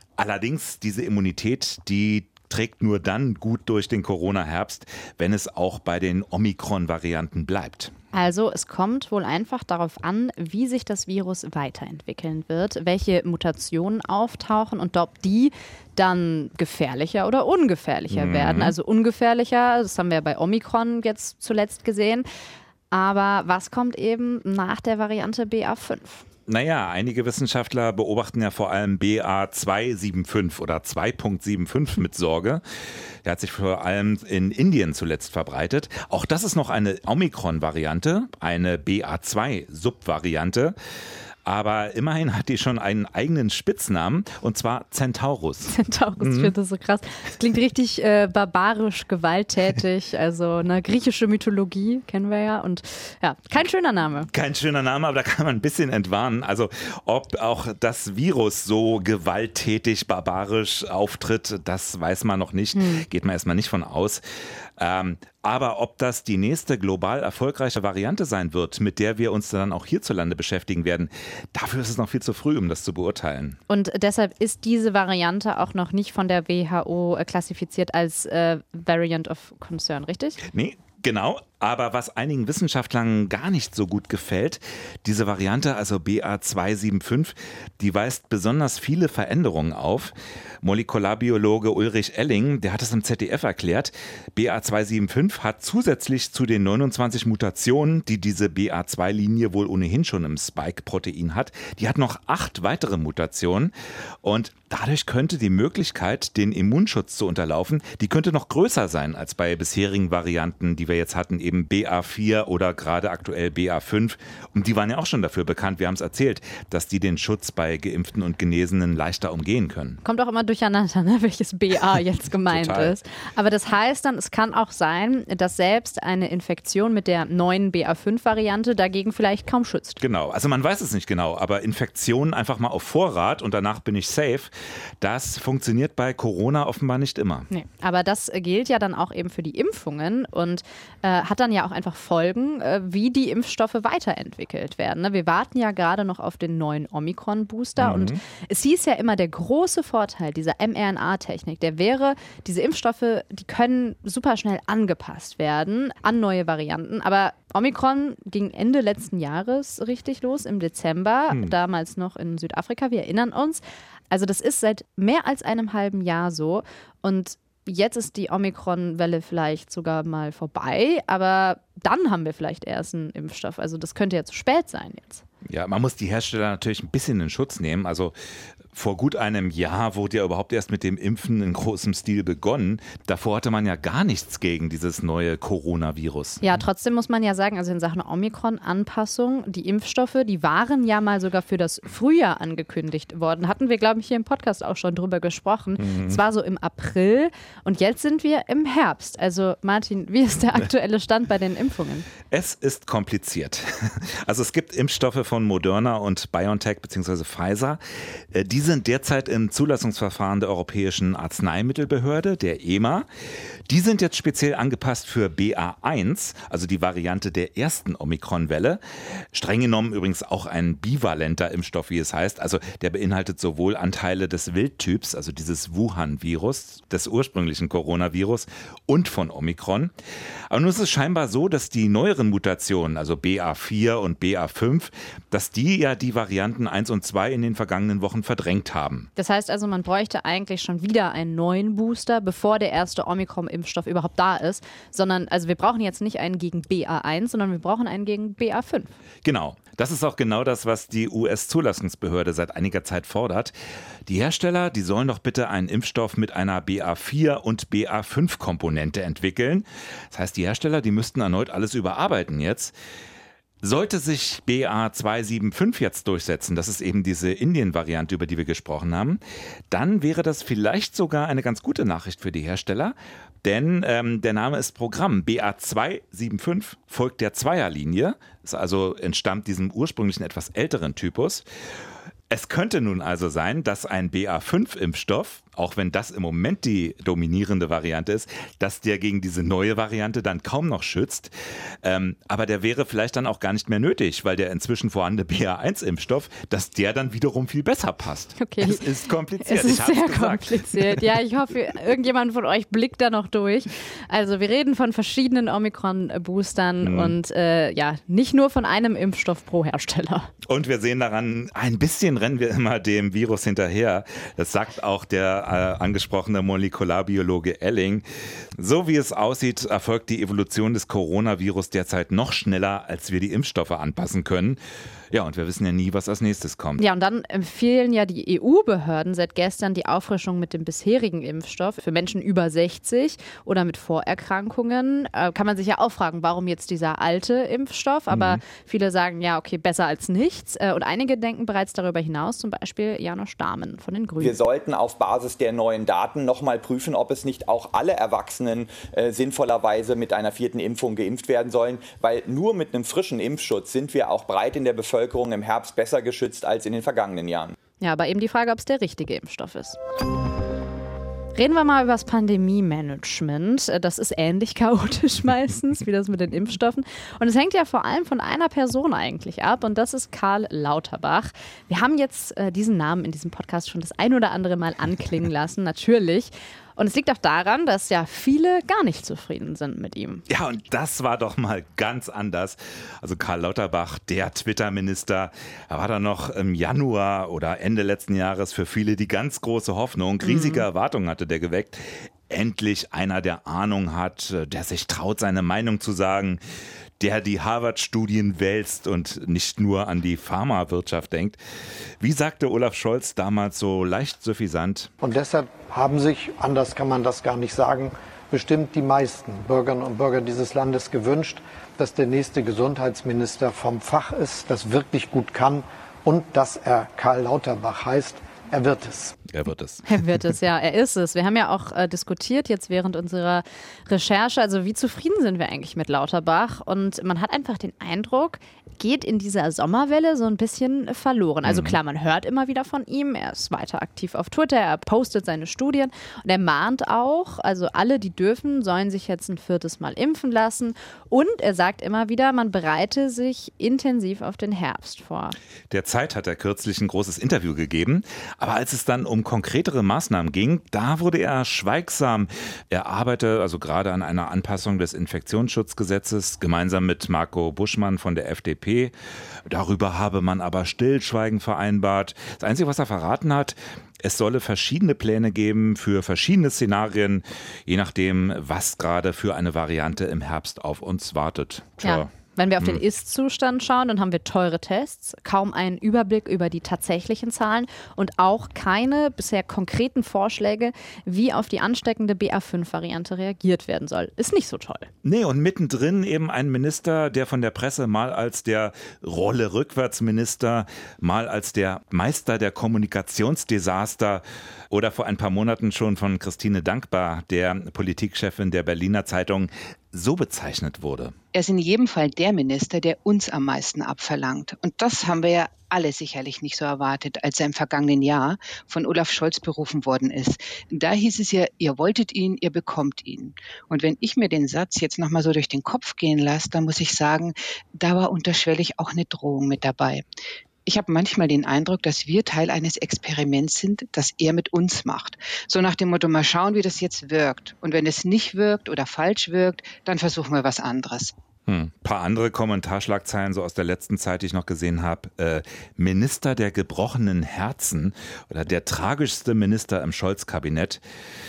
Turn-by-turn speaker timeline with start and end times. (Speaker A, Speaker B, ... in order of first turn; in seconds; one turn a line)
Speaker A: 0.2-7.9
Speaker B: 8.1-22.2
Speaker A: 18.1-18.7
Speaker B: 22.9-26.2
Speaker A: 26.5-32.6
Speaker A: 33.2-40.8
Speaker A: 41.5-46.5
Speaker B: 45.6-54.3
Speaker A: 54.3-64.2
Speaker B: 62.7-63.0
Speaker A: 64.8-73.6
Speaker B: 73.7-80.4
Speaker A: 80.5-103.7
Speaker A: 104.2-120.0
Speaker B: 120.0-130.0
Speaker A: 122.5-123.0
Speaker A: 130.0-137.5
Speaker B: 137.5-175.2
Speaker A: 147.8-148.2
Speaker A: 175.4-178.1
Speaker A: 178.7-186.6
Speaker B: 186.4-202.1
Speaker A: 195.8-196.2
Speaker A: 202.3-207.8
Speaker A: 208.3-213.1
Speaker A: 213.7-218.8
Speaker A: 219.3-229.9
Speaker A: 230.5-239.1
Speaker B: 239.2-248.9
Speaker A: 249.2-253.5
Speaker A: 254.1-262.7
Speaker A: 263.6-281.4
Speaker A: 282.3-291.3
Speaker A: 291.8-301.1
Speaker B: 298.4-310.3
Speaker A: 306.8-307.2
Speaker A: 310.4-318.0
Speaker A: 318.6-324.6
Speaker A: 325.1-326.8
Speaker B: 326.8-344.4
Speaker A: 338.1-338.4
Speaker C: 344.2-357.5
Speaker B: 357.8-359.8
Speaker B: 361.3-380.2
Speaker A: 380.3-396.4
Speaker B: 390.2-390.7
Speaker A: 397.0-401.4
Speaker A: 402.0-404.9
Speaker D: 405.0-419.1
Speaker A: 419.3-419.8
Speaker B: 419.8-445.4
Speaker A: 431.4-431.8
Speaker A: 445.7-458.9
Speaker A: 459.5-472.8
Speaker B: 471.8-484.9
Speaker A: 485.0-501.1
Speaker E: 501.3-520.0
Speaker E: 520.6-531.1
Speaker A: 531.5-540.8